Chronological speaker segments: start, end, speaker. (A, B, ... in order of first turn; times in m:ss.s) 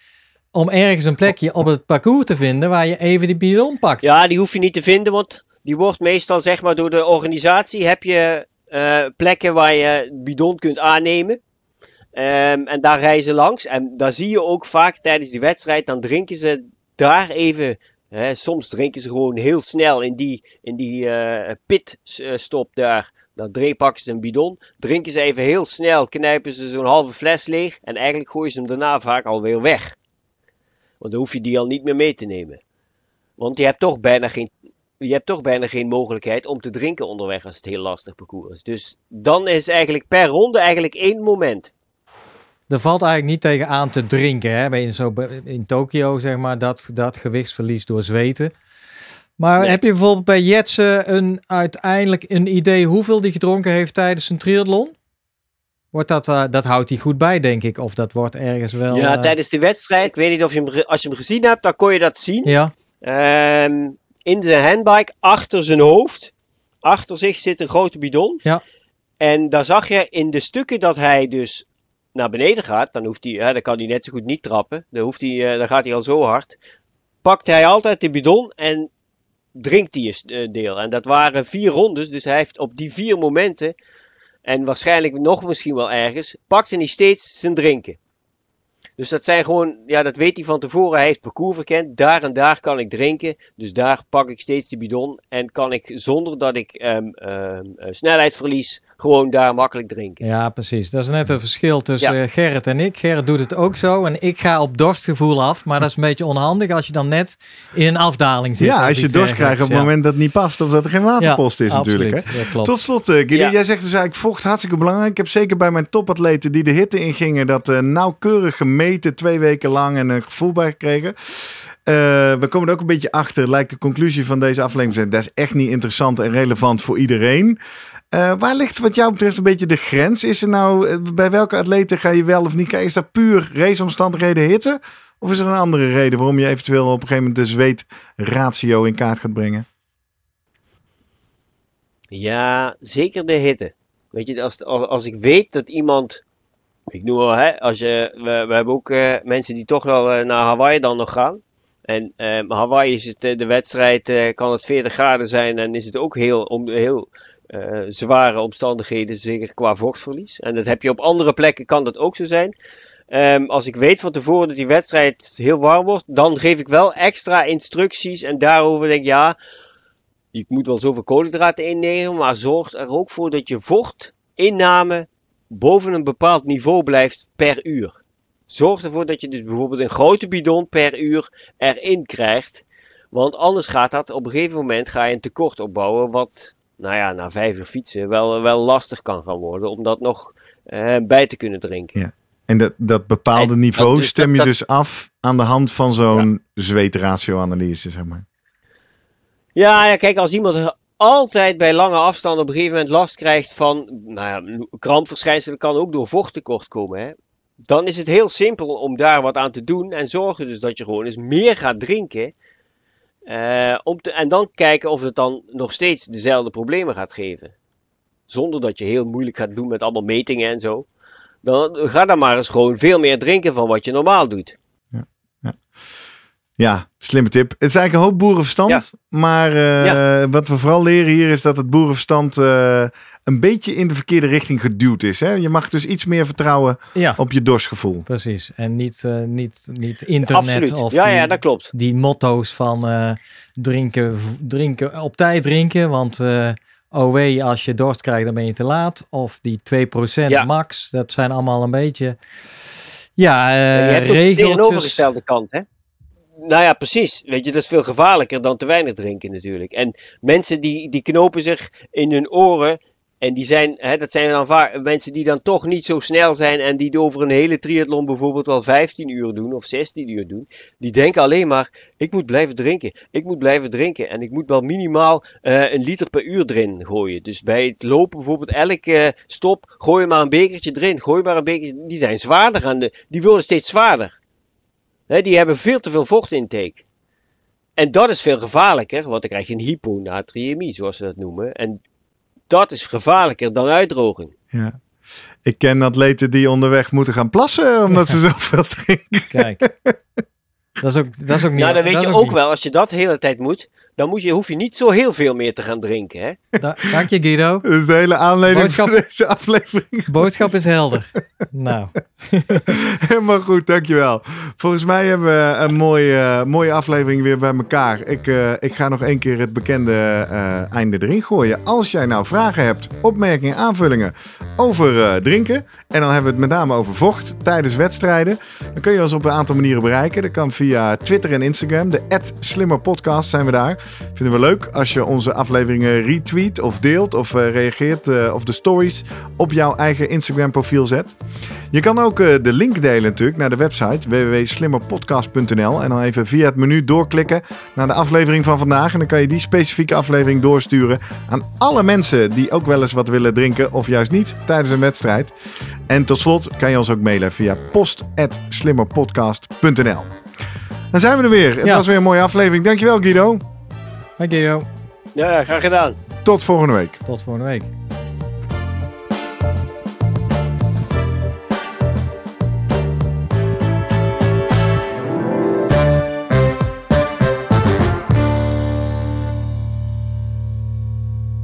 0:00.5-0:04.1 A
0:04.0-0:11.4 B
0:12.2-0:30.0 B
0:31.0-0:32.6 B
0:33.4-0:41.7 B
0:42.7-0:48.5 A
0:49.4-0:55.0 A
0:55.9-0:59.3 A
0:58.9-1:06.3 B
1:02.5-1:02.7 A
1:06.8-1:08.4 B
1:09.2-1:16.6 B
1:17.2-1:18.9 B
1:19.6-1:23.7 B
1:24.4-1:28.0 B
1:29.0-1:40.2 B
1:40.2-1:49.9 A
1:48.6-2:07.6 C
1:51.2-1:52.8 A
2:08.1-2:19.7 C
2:22.1-2:26.2 B
2:26.9-2:42.5 B
2:43.1-2:49.4 B
2:50.3-2:58.0 B
2:58.5-3:12.0 B
3:12.0-3:18.2 C
3:13.3-3:14.5 B
3:19.6-3:27.2 B
3:27.7-3:32.3 B
3:33.3-3:37.5 B
3:38.3-3:40.9 B
3:41.4-3:44.6 B
3:44.9-3:45.6 C
3:46.6-3:58.1 C
3:57.0-3:57.2 A
3:58.1-4:12.2 A
4:00.3-4:01.7 B
4:13.2-4:15.1 A
4:13.8-4:15.6 B
4:16.4-4:44.1 B
4:45.1-4:46.8 B
4:47.8-4:51.8 B
4:52.5-4:54.3 B
4:54.5-4:54.8 C
4:55.4-5:00.0 C
4:59.3-4:59.7 A
5:00.8-5:02.4 A
5:01.6-5:06.4 B
5:06.6-5:07.7 A
5:07.6-5:10.5 C
5:08.5-5:09.0 A
5:10.1-5:12.7 A
5:12.6-5:41.2 C
5:41.7-5:55.3 C
5:55.9-6:00.1 C
6:00.9-6:03.4 C
6:04.2-6:04.7 A
6:05.2-6:06.0 B
6:06.2-6:07.0 C
6:07.1-6:07.7 A